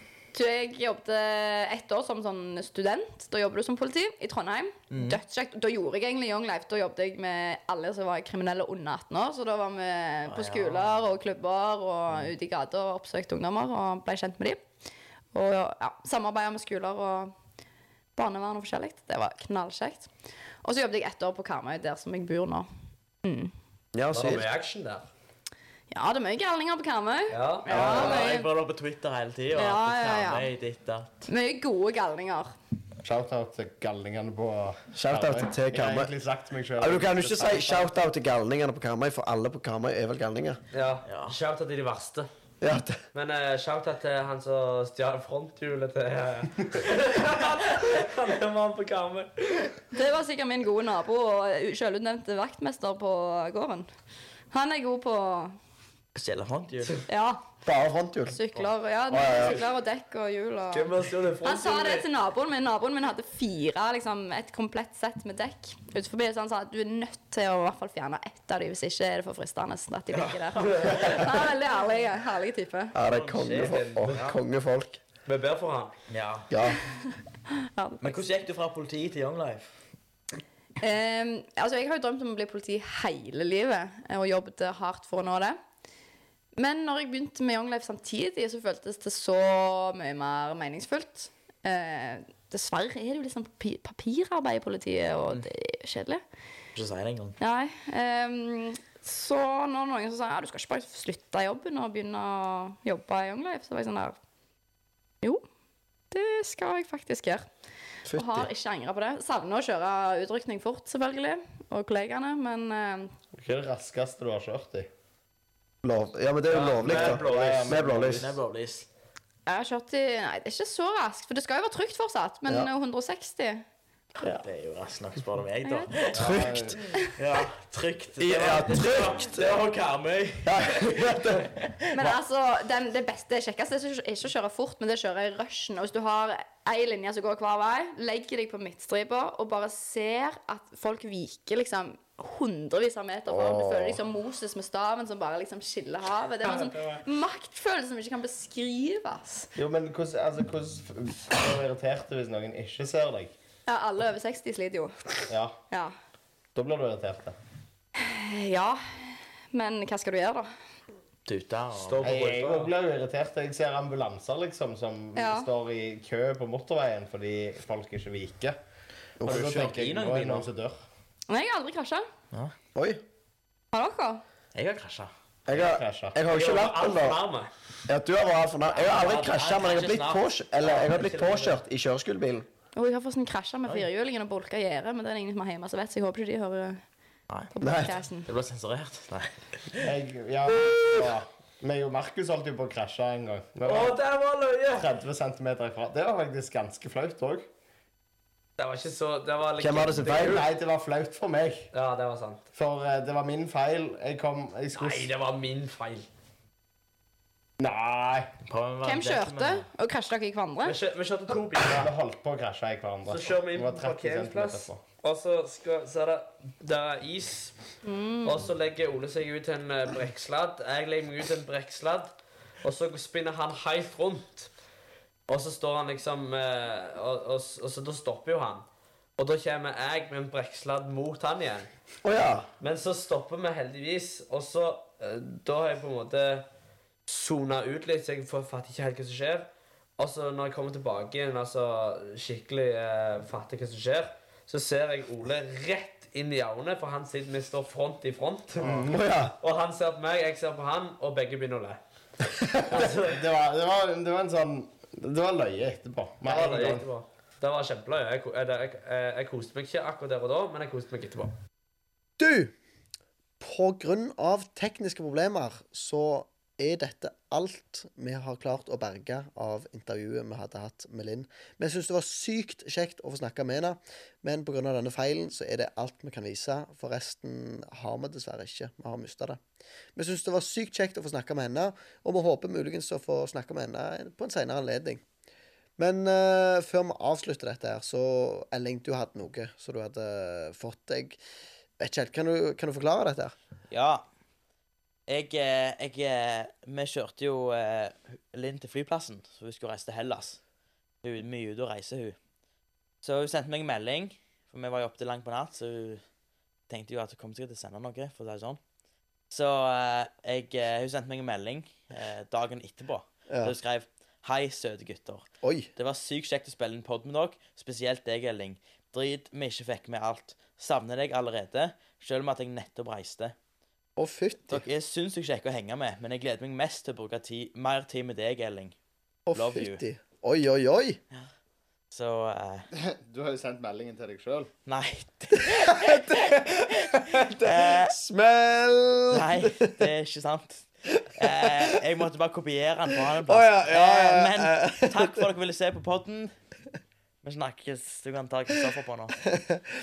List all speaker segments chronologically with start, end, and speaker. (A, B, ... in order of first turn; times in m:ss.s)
0:00.3-0:14.6 A
0:04.9-0:05.2 B
0:10.3-0:11.0 B
0:15.3-0:17.3 A
0:18.1-0:20.1 A
0:20.6-0:22.6 A
0:23.2-0:23.5 A
0:23.9-0:24.4 C
0:24.1-0:25.1 D
0:25.9-0:28.5 A
0:27.3-0:28.2 D
0:27.7-0:31.2 B
0:27.7-0:28.2 C
0:29.5-0:30.5 A
0:31.3-0:32.5 A
0:33.0-0:37.9 E
0:34.9-0:36.1 C
0:36.8-0:40.6 C
0:40.7-0:42.3 D
0:41.0-0:41.4 B
0:42.6-0:43.0 C
0:43.1-0:49.8 D
0:49.9-0:53.9 A
0:54.5-0:55.5 A
0:56.1-0:57.0 B
0:57.1-0:57.4 A
0:57.6-0:58.4 C
0:58.2-1:00.9 A
0:59.1-0:59.6 C
1:00.7-1:02.1 D
1:01.4-1:13.0 A
1:10.1-1:11.4 B
1:10.6-1:11.0 D
1:12.9-1:15.0 C
1:13.0-1:14.4 B
1:13.4-1:14.1 D
1:15.2-1:15.9 D
1:16.1-1:16.5 B
1:16.5-1:16.8 C
1:17.5-1:18.2 A
1:18.0-1:19.7 B
1:20.8-1:25.6 A
1:26.6-1:36.2 A
1:36.7-1:37.4 B
1:37.4-1:44.2 A
1:46.1-1:47.4 A
1:48.1-1:48.5 C
1:48.1-1:53.1 A
1:53.3-1:54.9 E
1:55.8-1:58.4 C
1:56.5-1:57.9 D
1:56.8-1:58.2 E
1:57.7-1:58.9 B
1:59.5-2:03.6 A
2:04.2-2:12.2 B
2:05.6-2:05.9 A
2:06.1-2:06.4 D
2:06.2-2:06.8 C
2:06.2-2:06.8 E
2:08.2-2:09.6 C
2:10.4-2:11.5 C
2:11.9-2:29.5 A
2:23.3-2:24.0 C
2:26.6-2:27.0 D
2:29.6-2:33.3 E
2:33.7-2:35.9 A
2:35.3-2:35.6 E
2:36.5-2:37.3 E
2:38.0-2:40.5 A
2:41.2-2:42.2 B
2:41.8-2:42.7 D
2:42.0-2:48.6 E
2:45.1-2:45.5 A
2:49.2-2:49.5 C
2:49.2-2:50.8 E
2:49.2-2:50.5 B
2:51.3-2:52.0 A
2:52.7-2:53.0 C
2:53.7-2:54.2 A
2:54.5-2:55.1 B
2:55.5-2:57.2 C
2:55.5-2:56.2 E
2:56.2-2:57.5 D
2:57.9-3:02.5 C
2:58.8-3:00.4 B
2:58.8-2:59.4 D
3:00.6-3:01.6 D
3:02.7-3:06.8 A
3:07.5-3:08.3 A
3:07.6-3:08.0 C
3:08.2-3:09.9 B
3:09.8-3:14.0 E
3:13.6-3:14.9 D
3:14.7-3:17.4 E
3:18.6-3:20.5 D
3:19.6-3:20.4 C
3:20.2-3:21.7 E
3:21.7-3:22.4 D
3:22.5-3:25.1 E
3:24.7-3:26.1 D
3:27.6-3:28.3 E
3:28.5-3:29.7 B
3:28.8-3:30.8 A
3:30.6-3:31.9 D
3:31.6-3:34.8 E
3:33.1-3:37.5 D
3:37.8-3:38.5 A
3:38.2-3:44.5 D
3:45.3-3:48.6 D
3:49.2-3:51.7 D
3:52.0-3:52.5 C
3:52.6-3:56.4 D
3:57.0-4:08.7 D
4:08.6-4:09.0 E
4:08.6-4:09.3 C
4:09.4-4:11.8 D
4:12.6-4:13.2 D
4:12.7-4:16.8 E
4:16.2-4:21.3 D
4:22.2-4:22.5 C
4:23.4-4:39.4 C
4:40.0-4:45.0 C
4:45.8-4:51.2 C
4:51.8-4:53.3 C
4:53.7-4:54.0 B
4:55.1-5:00.4 B
5:01.0-5:02.2 B
5:03.0-5:06.0 B
5:06.7-5:08.6 B
5:09.3-5:23.3 B
5:13.3-5:13.5 C
5:15.4-5:15.7 C
5:24.0-5:24.6 C
5:24.5-5:28.7 B
5:29.3-5:31.0 C
5:29.3-5:29.8 B
5:31.9-5:32.7 B
5:32.8-5:34.5 E
5:34.6-5:38.0 B
5:35.4-5:39.9 C
5:39.1-5:46.3 B
5:41.2-5:41.8 C
5:43.1-5:45.2 C
5:47.2-5:49.2 B
5:49.3-5:49.6 C